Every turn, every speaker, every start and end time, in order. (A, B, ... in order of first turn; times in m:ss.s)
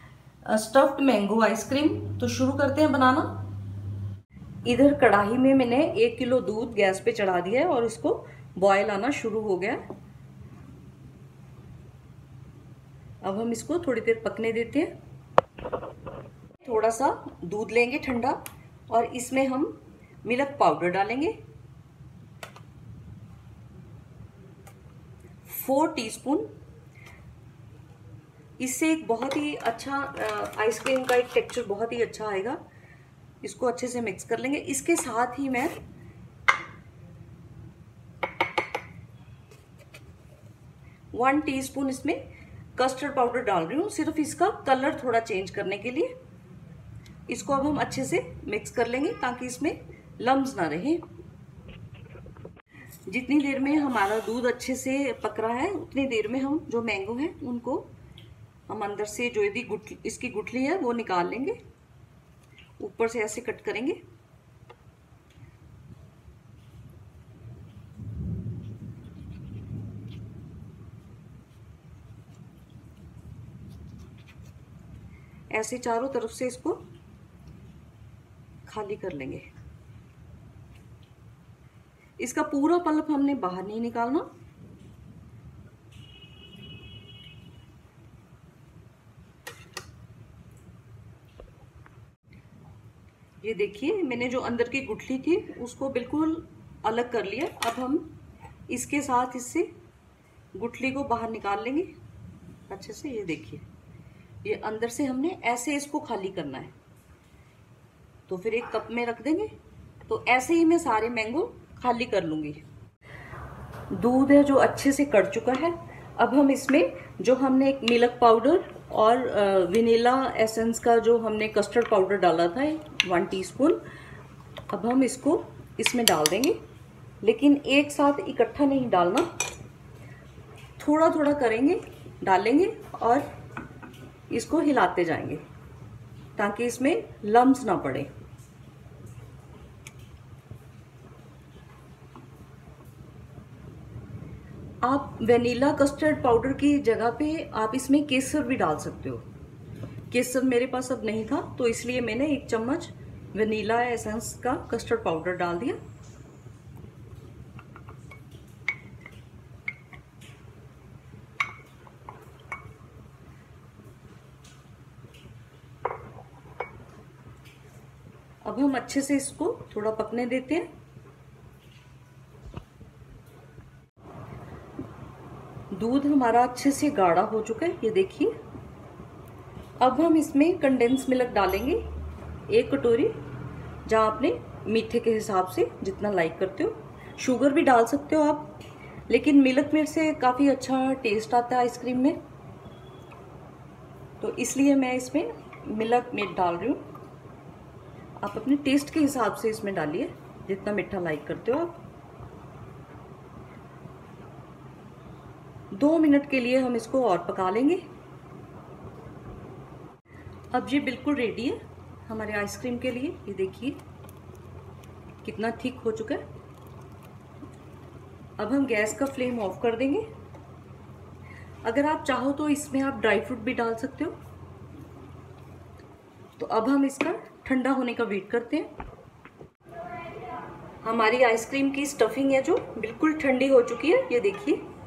0:00.4-0:03.4 A
0:04.6-0:09.8 A
0:13.2-0:14.9 A
0:16.6-0:21.4 A
0:25.4-0:26.5 A
0:28.6-0:32.6 A
0:33.4-0:35.7 A
0:41.1-0:42.2 A
0:42.8-0:46.1 A
0:47.3-0:51.0 A
0:53.1-0:57.9 A
0:58.7-1:01.6 A
1:02.8-1:04.0 A
1:15.5-1:16.8 A
1:18.6-1:19.5 A
1:22.2-1:24.3 A
1:33.4-1:38.1 A
1:38.7-1:39.7 A
1:40.5-1:41.9 A
1:42.7-1:43.6 A
1:44.4-1:46.7 A
1:48.3-1:49.5 A
1:50.1-1:52.6 A
1:53.9-2:03.8 A
2:04.7-2:06.6 A
2:07.2-2:09.3 A
2:10.8-2:13.2 A
2:14.3-2:15.4 A
2:16.4-2:18.1 A
2:24.8-2:29.2 A
2:30.1-2:35.8 A
2:48.4-2:50.7 A
2:55.7-2:58.3 A
2:59.8-3:01.8 A
3:02.5-3:03.2 A
3:03.8-3:08.5 A
3:09.1-3:12.2 A
3:14.2-3:16.8 A
3:18.2-3:21.8 A
3:25.7-3:27.8 A
3:30.5-3:33.8 A
3:35.2-3:36.2 A
3:38.4-3:40.1 A
3:41.6-3:44.2 A
3:46.4-3:48.7 A
3:50.8-3:54.6 A